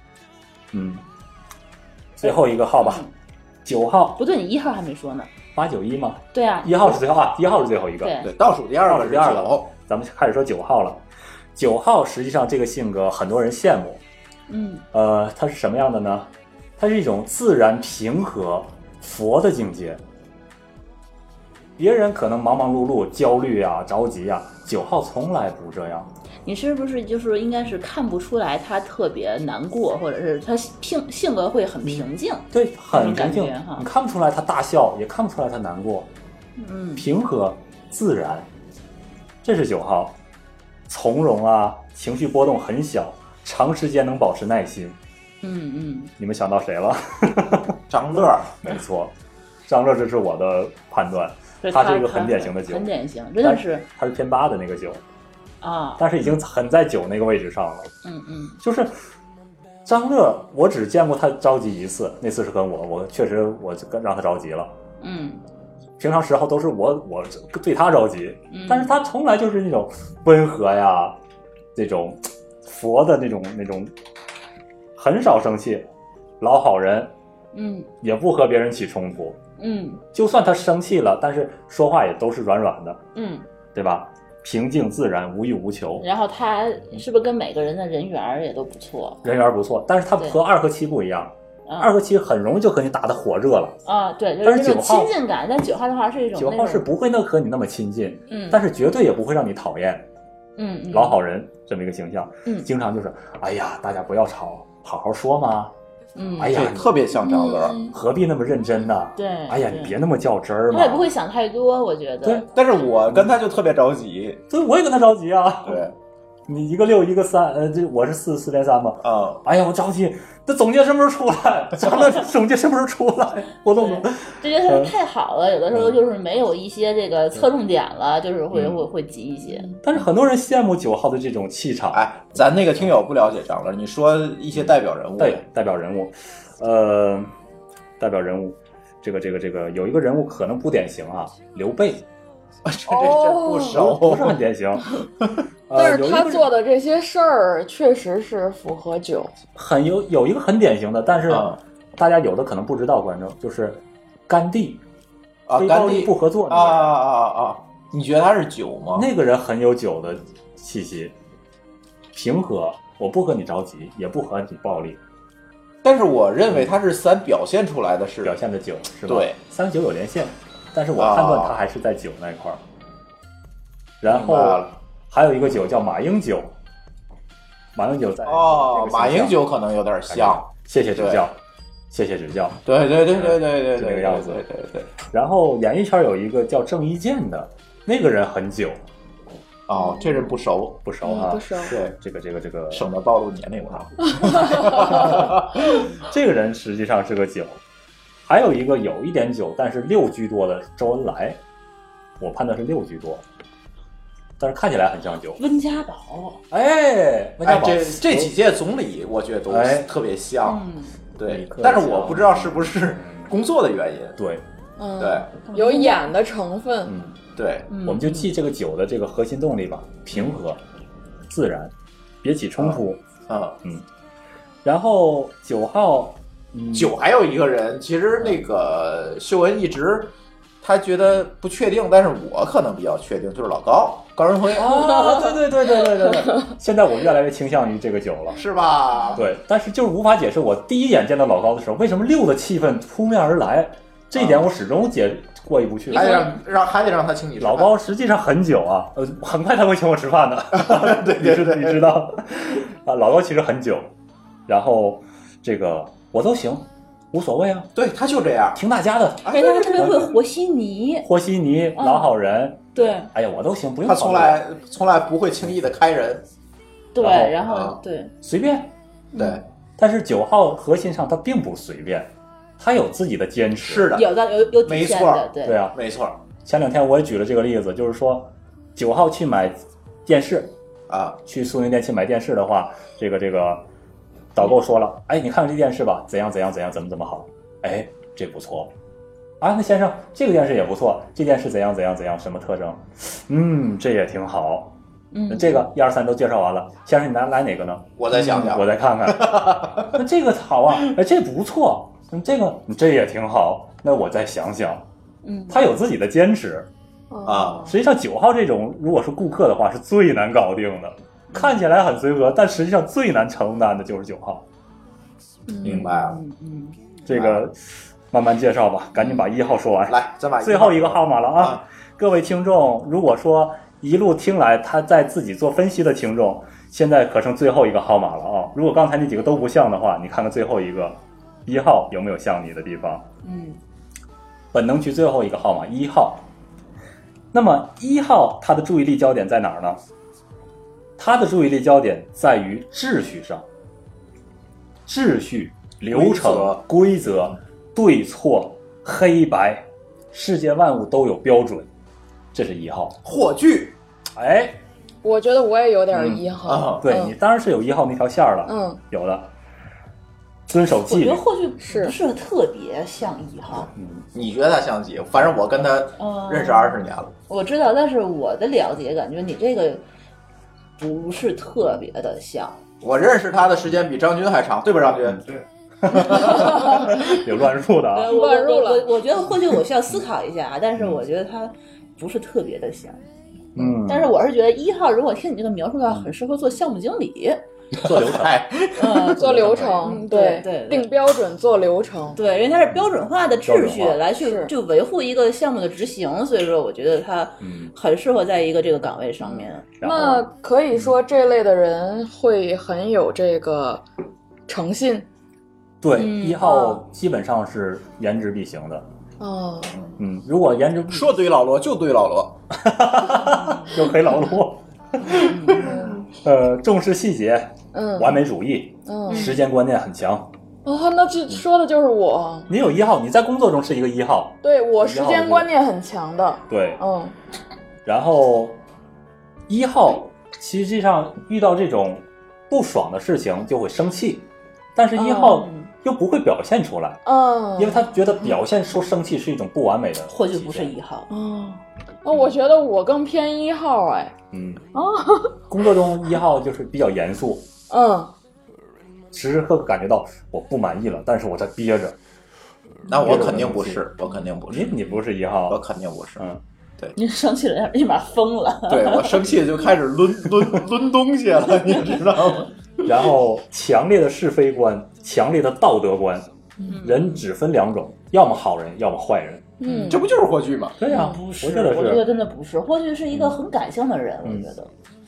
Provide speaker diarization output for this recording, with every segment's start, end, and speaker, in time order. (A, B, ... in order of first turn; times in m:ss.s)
0:00.7-0:01.0 A
0:02.2-0:03.0 A
0:02.2-0:03.1 B
0:03.6-0:04.2 A
0:04.2-0:05.3 B
0:05.5-0:08.2 A
0:06.3-0:07.0 B
0:08.0-0:08.3 B
0:08.2-0:09.7 C
0:08.8-0:11.0 A
0:11.6-0:14.0 A
0:14.5-0:14.8 B
0:14.9-0:20.0 A
0:21.8-0:26.1 A
0:26.4-0:33.8 B
0:31.9-0:36.1 A
0:36.6-0:37.0 B
0:37.0-0:38.5 A
0:39.4-0:40.2 A
0:40.9-0:45.0 A
0:45.4-0:46.1 B
0:46.2-0:49.1 A
0:47.9-0:48.6 C
0:49.7-0:52.9 A
0:51.6-0:53.8 B
0:53.4-0:55.0 A
0:55.6-0:56.0 B
0:56.0-0:57.9 A
0:58.0-0:58.6 B
0:58.6-0:58.9 A
0:59.8-1:04.7 A
1:05.0-1:05.4 B
1:06.0-1:11.2 A
1:08.5-1:08.9 B
1:11.8-1:13.9 A
1:15.0-1:15.9 A
1:16.4-1:17.1 A
1:17.5-1:17.9 B
1:18.0-1:19.4 A
1:19.6-1:20.0 B
1:20.1-1:23.0 A
1:23.1-1:23.4 B
1:23.7-1:26.0 A
1:26.0-1:29.2 B
1:29.2-1:33.8 A
1:31.7-1:31.9 B
1:33.8-1:36.9 B
1:34.4-1:35.1 A
1:36.4-1:40.1 A
1:38.3-1:38.6 B
1:40.6-1:41.2 B
1:40.9-1:45.7 A
1:46.2-1:46.5 B
1:46.4-1:47.0 A
1:46.4-1:47.8 C
1:47.2-1:47.9 D
1:47.9-1:51.1 A
1:49.2-1:50.0 B
1:50.7-1:52.4 B
1:52.5-1:54.4 C
1:54.5-1:55.8 A
1:55.6-1:55.9 C
1:56.5-2:04.9 A
1:59.0-1:59.4 C
2:03.8-2:09.7 B
2:08.5-2:08.8 A
2:09.8-2:12.0 A
2:11.9-2:15.4 C
2:14.6-2:17.3 A
2:18.0-2:22.0 A
2:22.6-2:24.4 C
2:22.9-2:23.8 D
2:23.7-2:24.9 A
2:25.7-2:26.5 A
2:25.7-2:29.3 D
2:29.5-2:34.8 A
2:31.3-2:31.6 C
2:35.5-2:39.1 C
2:35.6-2:37.0 A
2:38.9-2:41.1 A
2:42.1-2:45.0 A
2:45.8-2:48.4 C
2:48.2-2:52.6 A
2:49.1-2:49.4 C
2:51.0-2:51.5 C
2:54.0-2:56.5 A
2:54.0-2:54.7 C
2:57.7-2:59.4 A
2:58.2-3:01.2 C
3:00.1-3:01.4 A
3:01.9-3:02.6 A
3:02.6-3:04.9 C
3:03.1-3:04.4 A
3:05.1-3:08.8 A
3:09.7-3:10.8 C
3:09.8-3:10.2 D
3:10.8-3:12.9 A
3:11.0-3:11.8 D
3:11.6-3:11.9 C
3:12.7-3:15.7 C
3:14.2-3:14.9 D
3:14.9-3:15.3 A
3:16.0-3:17.6 A
3:18.3-3:21.4 A
3:22.2-3:23.2 A
3:24.4-3:25.4 A
3:25.4-3:26.4 B
3:26.5-3:28.3 A
3:27.4-3:30.6 C
3:29.5-3:29.9 A
3:30.4-3:31.0 B
3:31.2-3:34.2 C
3:31.3-3:33.3 A
3:34.2-3:34.4 A
3:34.8-3:36.9 D
3:35.0-3:35.3 C
3:35.5-3:36.0 B
3:36.8-3:37.1 A
3:37.4-3:37.7 C
3:37.7-3:38.3 B
3:37.8-3:40.6 A
3:41.3-3:41.7 A
3:42.2-3:43.0 A
3:42.6-3:43.6 C
3:44.6-3:46.9 A
3:46.7-3:55.3 C
3:54.5-3:58.4 A
3:58.3-3:59.3 C
3:59.1-4:06.3 A
4:04.1-4:04.5 C
4:05.9-4:07.7 C
4:06.0-4:06.3 B
4:07.4-4:13.9 A
4:10.5-4:11.9 C
4:14.5-4:17.7 A
4:17.7-4:18.6 C
4:18.5-4:20.1 A
4:19.2-4:20.1 C
4:19.3-4:21.1 B
4:21.0-4:24.4 A
4:21.8-4:22.1 B
4:22.7-4:23.1 B
4:23.8-4:26.2 C
4:26.9-4:28.1 B
4:27.0-4:27.4 A
4:27.5-4:27.8 C
4:28.2-4:28.7 A
4:29.2-4:29.4 C
4:29.8-4:33.9 A
4:33.6-4:34.1 C
4:33.9-4:35.6 B
4:34.6-4:36.2 C
4:35.4-4:35.8 A
4:36.4-4:40.5 A
4:40.9-4:41.2 C
4:41.2-4:43.6 A
4:44.3-4:48.7 A
4:49.4-4:54.7 A
4:55.1-4:55.6 B
4:55.3-5:04.8 A
4:58.0-4:59.9 C
5:05.2-5:05.6 B
5:05.5-5:06.7 A
5:07.1-5:07.7 D
5:07.2-5:07.7 C
5:07.7-5:14.4 A
5:15.5-5:15.8 D
5:15.6-5:16.2 C
5:15.7-5:16.8 B
5:17.0-5:17.6 A
5:17.1-5:17.4 C
5:18.1-5:33.0 A
5:19.9-5:21.6 C
5:33.2-5:33.6 B
5:34.5-5:36.2 A
5:37.3-5:39.8 A
5:41.0-5:43.4 A
5:44.9-5:51.7 A
5:45.9-5:46.6 C
5:52.3-5:53.0 A
5:53.0-5:53.8 C
5:54.2-5:54.6 A
5:55.0-5:57.1 D
5:55.9-5:56.2 A
5:56.4-5:56.8 C
5:56.8-5:59.3 A
5:58.4-5:58.8 D
6:00.5-6:01.2 A
6:00.8-6:03.7 B
6:01.6-6:01.9 D
6:03.7-6:04.1 A
6:04.1-6:07.1 C
6:06.0-6:09.8 B
6:10.8-6:12.6 B
6:12.8-6:16.6 C
6:15.8-6:18.1 A
6:17.9-6:23.0 B
6:18.0-6:18.9 D
6:23.6-6:24.1 A
6:23.9-6:27.4 B
6:27.8-6:28.4 A
6:27.8-6:29.5 C
6:28.8-6:30.9 B
6:29.2-6:32.2 D
6:29.2-6:29.8 A
6:32.1-6:39.6 B
6:33.4-6:34.0 A
6:34.1-6:34.5 D
6:37.4-6:37.7 A
6:39.2-6:43.8 D
6:39.8-6:40.9 A
6:44.5-6:45.1 D
6:45.8-6:48.8 A
6:45.9-6:46.6 B
6:46.4-6:46.8 D
6:49.2-6:49.8 D
6:50.0-6:51.2 A
6:50.9-6:52.4 C
6:52.5-6:55.3 A
6:53.2-6:53.7 B
6:55.0-6:55.7 B
6:55.6-6:56.1 D
6:56.2-7:00.3 A
6:57.7-6:58.2 D
6:58.8-6:59.4 D
6:59.1-6:59.4 B
7:00.6-7:02.5 D
7:02.5-7:05.5 A
7:04.4-7:07.1 D
7:06.5-7:06.8 A
7:07.8-7:08.6 A
7:09.5-7:17.0 A
7:15.0-7:15.4 D
7:15.3-7:15.7 B
7:17.0-7:18.3 D
7:17.6-7:20.7 A
7:20.1-7:21.1 B
7:21.1-7:24.1 D
7:24.3-7:24.6 A
7:24.7-7:25.4 D
7:25.5-7:27.4 A
7:27.7-7:28.1 D
7:29.1-7:32.0 A
7:32.9-7:36.2 C
7:32.9-7:33.9 A
7:34.5-7:35.6 A
7:37.0-7:39.3 B
7:38.7-7:42.5 C
7:42.8-7:46.3 A
7:46.7-7:47.2 B
7:46.8-7:49.5 A
7:49.6-7:50.1 D
7:49.6-7:50.0 B
7:49.9-7:50.8 C
7:50.8-7:52.1 A
7:50.8-7:54.7 B
7:53.1-7:53.4 A